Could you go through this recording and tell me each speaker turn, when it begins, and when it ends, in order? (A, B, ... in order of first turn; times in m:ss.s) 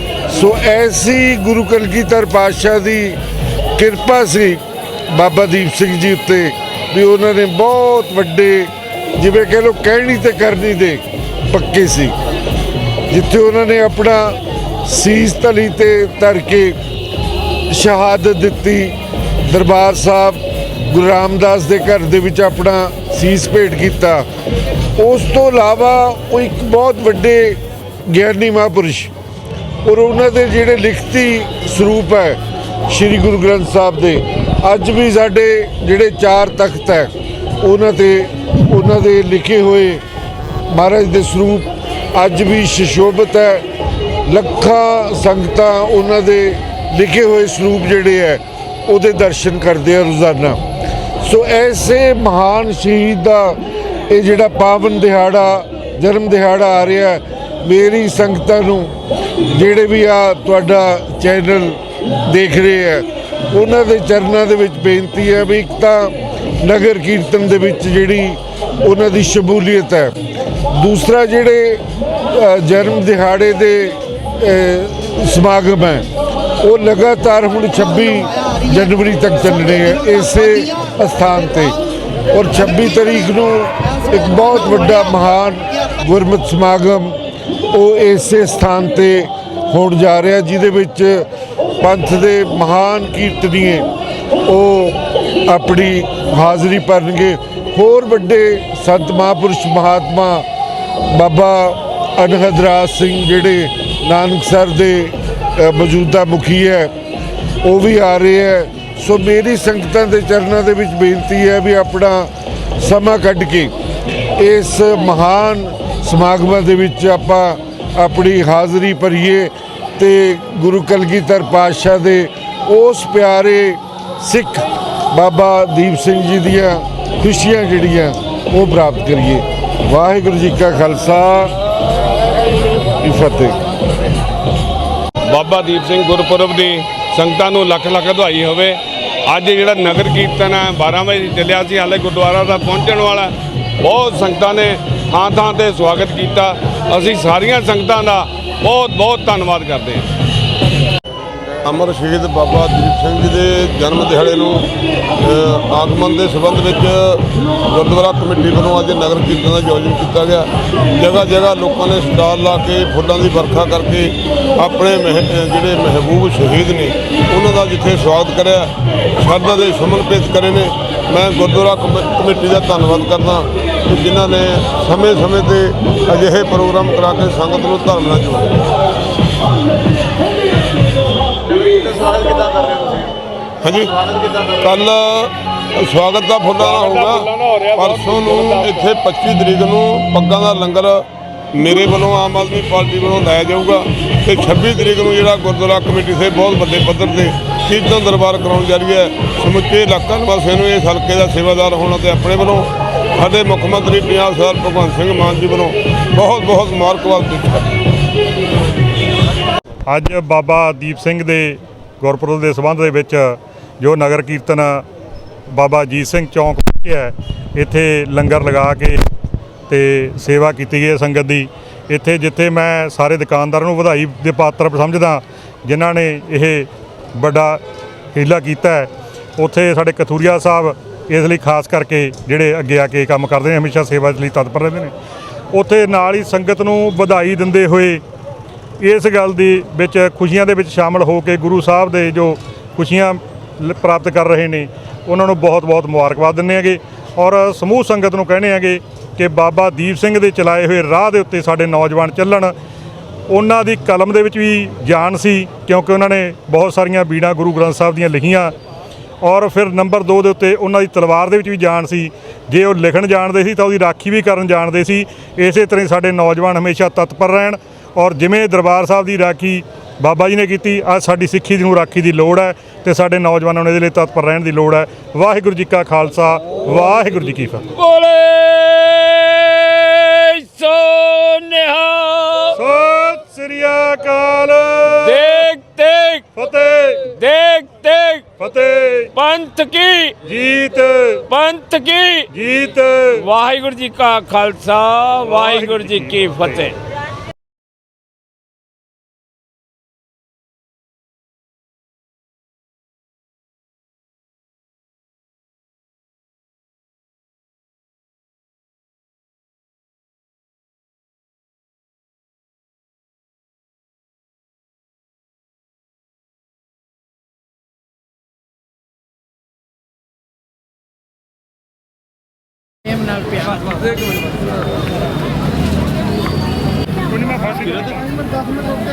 0:00.3-0:03.2 A
0:03.8-0:12.1 A
0:13.1-0:16.8 A
0:17.7-0:24.2 A
0:25.0-0:29.1 A
0:29.8-0:40.0 A
0:40.7-0:43.6 A
0:44.3-0:50.6 A
0:51.2-0:58.9 A
0:59.5-1:10.2 A
1:10.7-1:16.1 A
1:16.6-1:21.8 A
1:22.3-1:27.2 A
1:27.7-1:31.3 A
1:31.8-1:33.9 A
1:34.4-1:40.4 A
1:41.1-1:46.9 A
1:47.6-1:53.7 A
1:54.4-2:11.6 A
2:13.0-2:13.6 A
2:15.3-2:30.0 B
2:31.6-2:34.6 C
2:35.2-2:58.5 C
3:01.7-3:02.6 B
3:03.6-3:27.7 C
3:06.6-3:08.8 B
3:29.9-3:34.8 D
3:35.5-3:39.0 D
3:39.7-3:47.6 D
3:48.1-3:54.9 D
3:55.5-3:58.0 D
3:58.8-4:12.5 D
4:13.3-4:18.5 D
4:19.2-4:37.6 D
4:37.7-4:42.6 E
4:42.6-4:45.4 D
4:45.0-4:46.2 E
4:46.3-4:47.1 D
4:47.0-4:48.2 E
4:48.4-4:49.1 D
4:49.1-4:50.2 E
4:50.2-4:51.2 D
4:51.3-4:52.3 E
4:52.3-4:53.2 D
4:53.2-4:56.8 E
4:55.2-4:56.6 D
5:27.1-5:28.0 D